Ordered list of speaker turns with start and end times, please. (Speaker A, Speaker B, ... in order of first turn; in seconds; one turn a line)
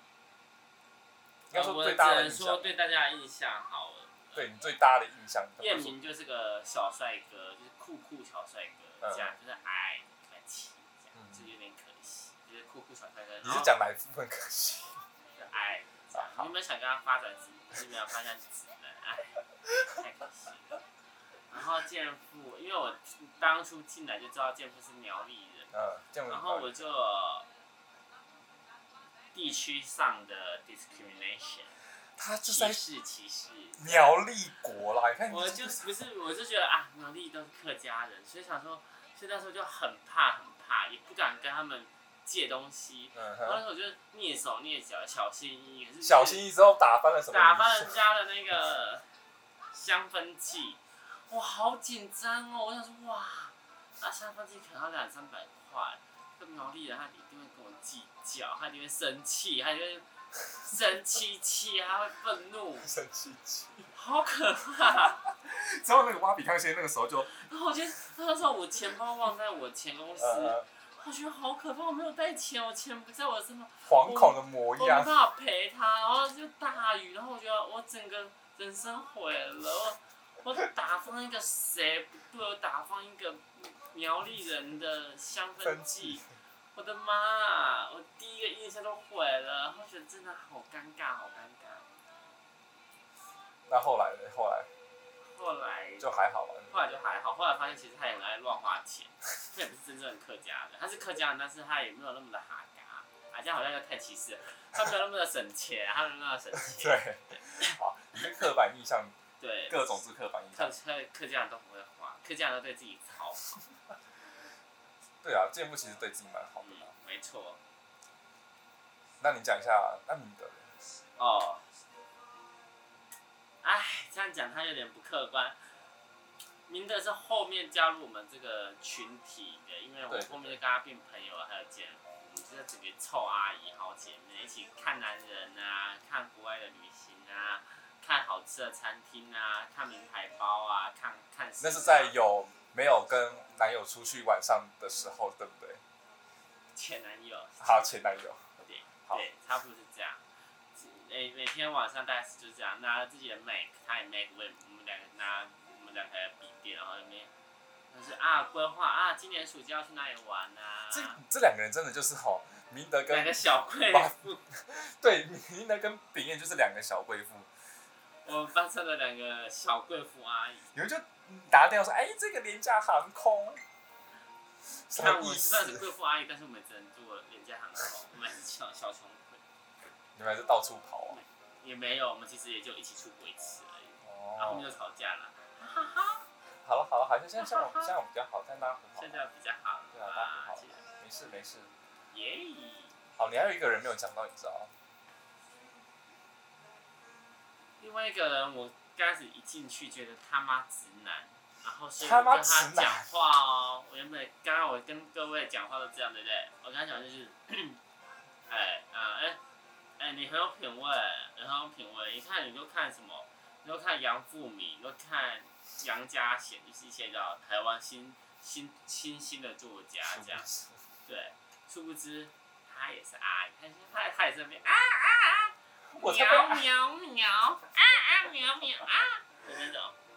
Speaker A: 1.5-2.7
Speaker B: 1.5-4.5
Speaker A: 4.3-6.0
Speaker B: 5.6-13.7
Speaker A: 9.0-9.3
Speaker A: 11.2-11.4
Speaker A: 13.4-15.0
Speaker B: 15.4-20.8
Speaker A: 16.1-16.5
Speaker B: 21.5-25.7
Speaker A: 25.7-26.9
Speaker B: 26.3-27.5
Speaker B: 29.3-31.8
Speaker A: 32.2-32.8
Speaker B: 32.5-34.2
Speaker A: 33.8-35.9
Speaker B: 35.3-46.4
Speaker A: 43.1-43.6
Speaker A: 46.0-48.0
Speaker B: 47.3-49.1
Speaker B: 49.7-60.1
Speaker B: 60.6-62.9
Speaker A: 62.8-63.9
Speaker B: 63.9-65.2
Speaker A: 65.1-67.3
Speaker B: 67.3-86.2
Speaker A: 70.2-70.7
Speaker A: 73.9-75.1
Speaker A: 85.6-86.3
Speaker B: 86.7-91.9
Speaker A: 93.7-94.7
Speaker B: 95.2-96.1
Speaker A: 96.0-96.8
Speaker B: 96.7-107.0
Speaker A: 106.6-109.2
Speaker B: 109.4-110.0
Speaker A: 109.7-110.7
Speaker B: 110.5-113.6
Speaker A: 115.2-116.9
Speaker B: 116.6-117.6
Speaker A: 119.2-120.7
Speaker B: 121.2-121.6
Speaker B: 123.6-125.6
Speaker B: 126.7-142.2
Speaker A: 130.1-130.6
Speaker A: 141.6-145.8
Speaker B: 146.7-150.2
Speaker A: 147.6-148.4
Speaker B: 150.8-157.3
Speaker B: 157.9-161.2
Speaker A: 160.9-163.3
Speaker B: 163.1-164.4
Speaker A: 163.9-167.5
Speaker B: 168.2-170.7
Speaker A: 170.7-173.6
Speaker A: 174.9-175.8
Speaker B: 174.9-179.4
Speaker A: 180.2-181.2
Speaker B: 181.1-186.2
Speaker A: 184.0-184.7
Speaker A: 186.6-189.2
Speaker B: 187.4-187.9
Speaker B: 189.0-190.9
Speaker A: 189.9-191.7
Speaker B: 192.1-193.0
Speaker A: 193.2-194.7
Speaker B: 197.8-207.8
Speaker A: 202.0-203.1
Speaker B: 208.5-209.4
Speaker B: 210.0-220.5
Speaker A: 220.1-220.7
Speaker B: 221.1-229.9
Speaker A: 225.9-226.7